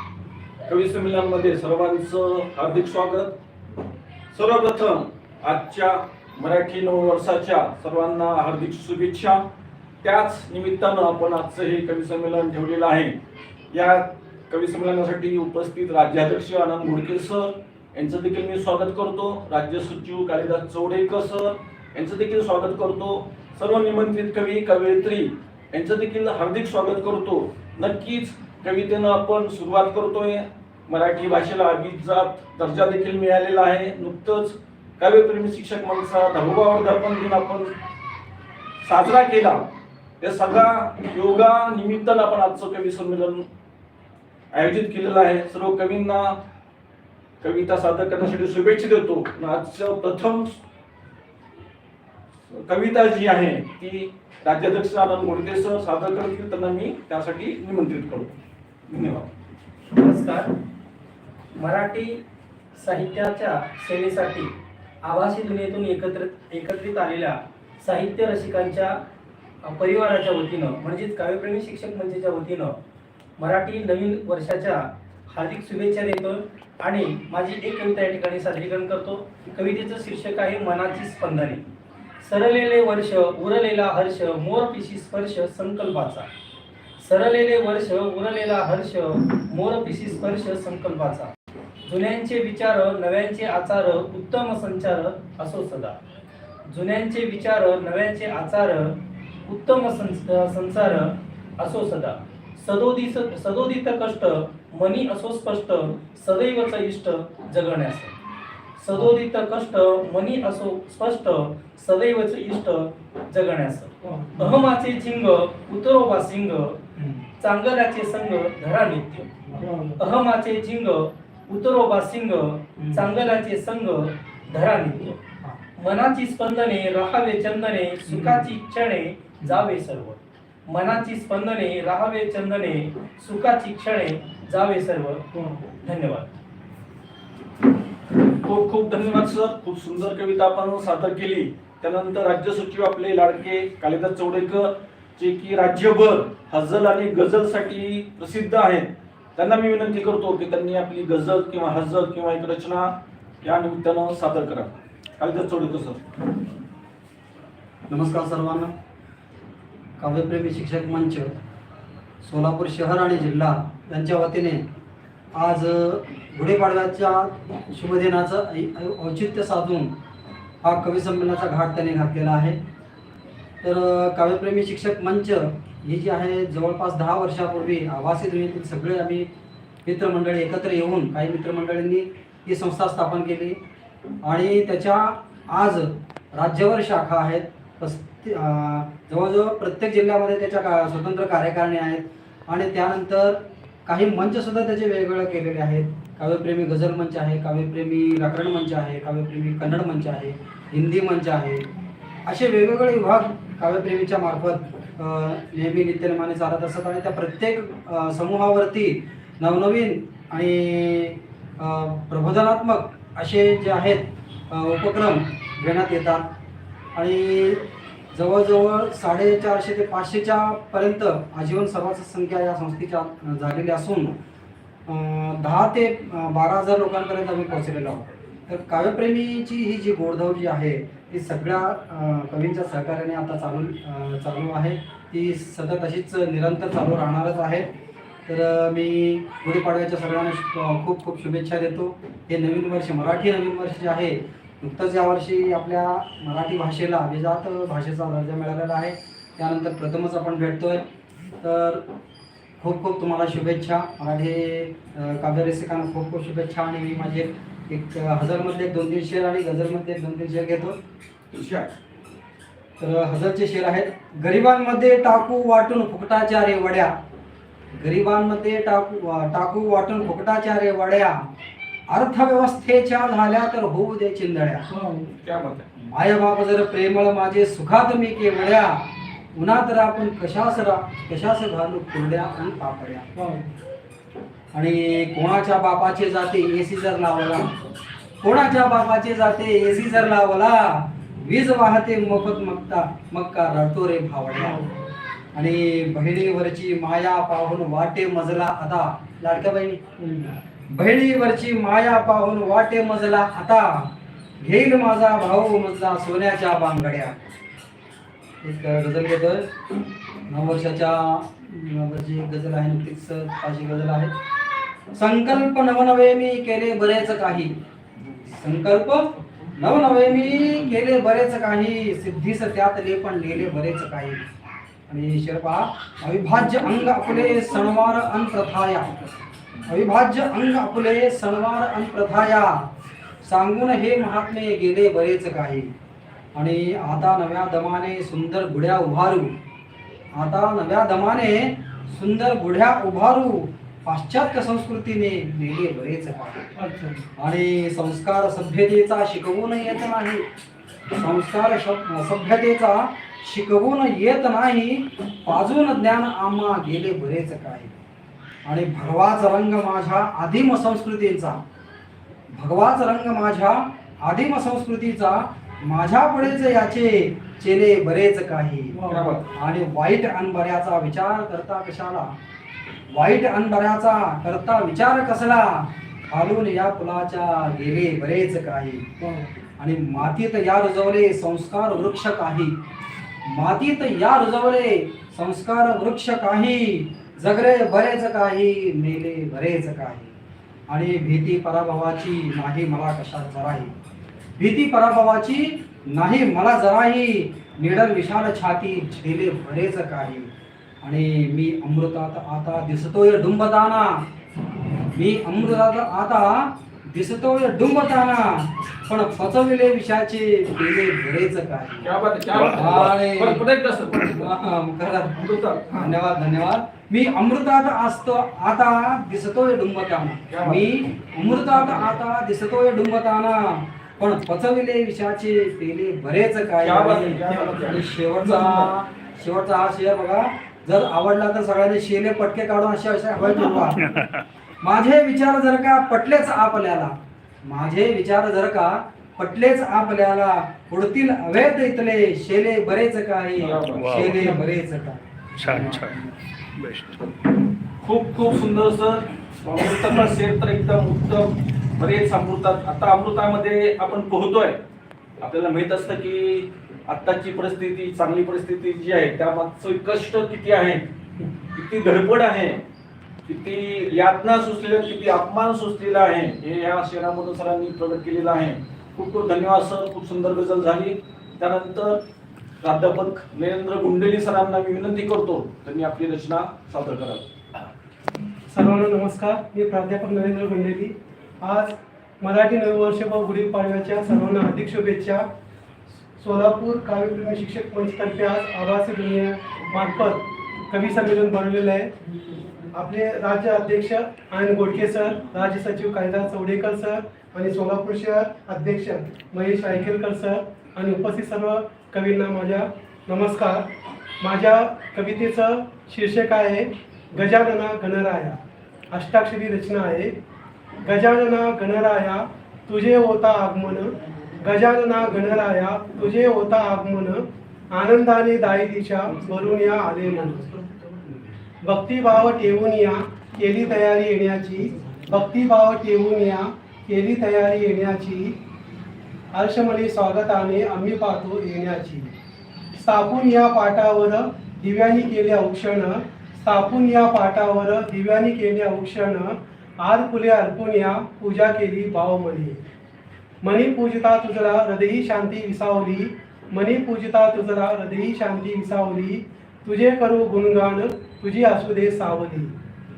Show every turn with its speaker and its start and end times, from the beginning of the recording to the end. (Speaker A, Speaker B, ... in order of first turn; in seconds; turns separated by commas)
Speaker A: 0.7-3.4, Speaker A: 4.3-9.5, Speaker A: 10.0-13.2, Speaker A: 13.7-37.7, Speaker A: 38.8-43.5, Speaker A: 44.5-46.4, Speaker A: 47.4-50.5, Speaker A: 52.5-58.4, Speaker A: 58.9-59.3, Speaker B: 59.9-60.5, Speaker B: 61.5-62.2, Speaker B: 62.8-69.0, Speaker B: 69.6-72.8, Speaker B: 73.4-81.6, Speaker B: 82.2-86.3, Speaker B: 87.0-91.3, Speaker B: 91.8-96.0, Speaker B: 96.7-108.1, Speaker B: 108.8-116.8, Speaker C: 114.0-114.3, Speaker D: 114.3-114.6, Speaker D: 117.0-117.2, Speaker B: 117.4-119.3, Speaker C: 119.6-119.9, Speaker B: 120.0-125.2, Speaker D: 122.8-123.1, Speaker B: 125.8-136.3, Speaker D: 128.1-128.5, Speaker A: 138.4-156.0, Speaker D: 157.9-158.7, Speaker D: 160.0-161.3, Speaker D: 162.2-164.7, Speaker D: 165.3-169.9, Speaker D: 170.6-172.6, Speaker D: 173.6-179.3, Speaker D: 179.8-183.6, Speaker D: 184.2-201.7, Speaker D: 202.2-216.3, Speaker D: 216.9-224.2, Speaker D: 224.9-237.7, Speaker D: 238.2-250.8, Speaker D: 251.4-251.8, Speaker D: 252.6-260.8, Speaker A: 261.3-261.7, Speaker D: 262.8-266.9, Speaker D: 267.7-271.2, Speaker D: 271.9-274.7, Speaker C: 274.8-275.0, Speaker A: 275.1-275.7, Speaker D: 275.8-283.1, Speaker C: 283.2-283.4, Speaker D: 284.5-294.6, Speaker C: 294.4-294.8, Speaker D: 295.3-299.8, Speaker C: 300.0-300.3, Speaker D: 300.7-307.2, Speaker D: 308.4-309.5, Speaker D: 310.3-314.1, Speaker D: 314.9-317.6, Speaker D: 318.2-324.2, Speaker D: 324.9-329.0, Speaker D: 329.7-332.7, Speaker D: 333.2-335.7, Speaker D: 336.3-339.4, Speaker D: 340.1-346.4, Speaker C: 346.6-347.0, Speaker D: 347.2-350.2, Speaker D: 350.9-357.7, Speaker D: 358.4-361.4, Speaker D: 362.3-372.1, Speaker C: 368.7-369.1, Speaker A: 368.9-369.3, Speaker D: 372.9-378.9, Speaker D: 379.6-382.6, Speaker D: 383.2-390.1, Speaker D: 390.7-393.8, Speaker D: 394.4-400.3, Speaker D: 400.8-404.0, Speaker D: 404.9-413.4, Speaker A: 411.8-414.3, Speaker D: 414.1-433.8, Speaker A: 415.1-415.9, Speaker A: 420.3-420.7, Speaker A: 426.6-428.7, Speaker E: 433.8-434.2, Speaker D: 434.6-446.2, Speaker A: 443.4-444.3, Speaker E: 443.7-444.1, Speaker E: 445.4-446.0, Speaker A: 445.5-445.7, Speaker E: 446.6-447.0, Speaker A: 447.8-454.6, Speaker A: 455.2-460.9, Speaker A: 461.5-462.6, Speaker A: 463.2-472.0, Speaker A: 472.6-477.2, Speaker C: 478.5-485.2, Speaker C: 486.2-491.9, Speaker C: 492.7-503.7, Speaker C: 504.2-508.4, Speaker C: 508.9-510.2, Speaker C: 510.8-520.5, Speaker D: 520.5-521.2, Speaker C: 521.6-528.4, Speaker C: 529.3-532.1, Speaker C: 532.8-542.6, Speaker C: 543.4-552.5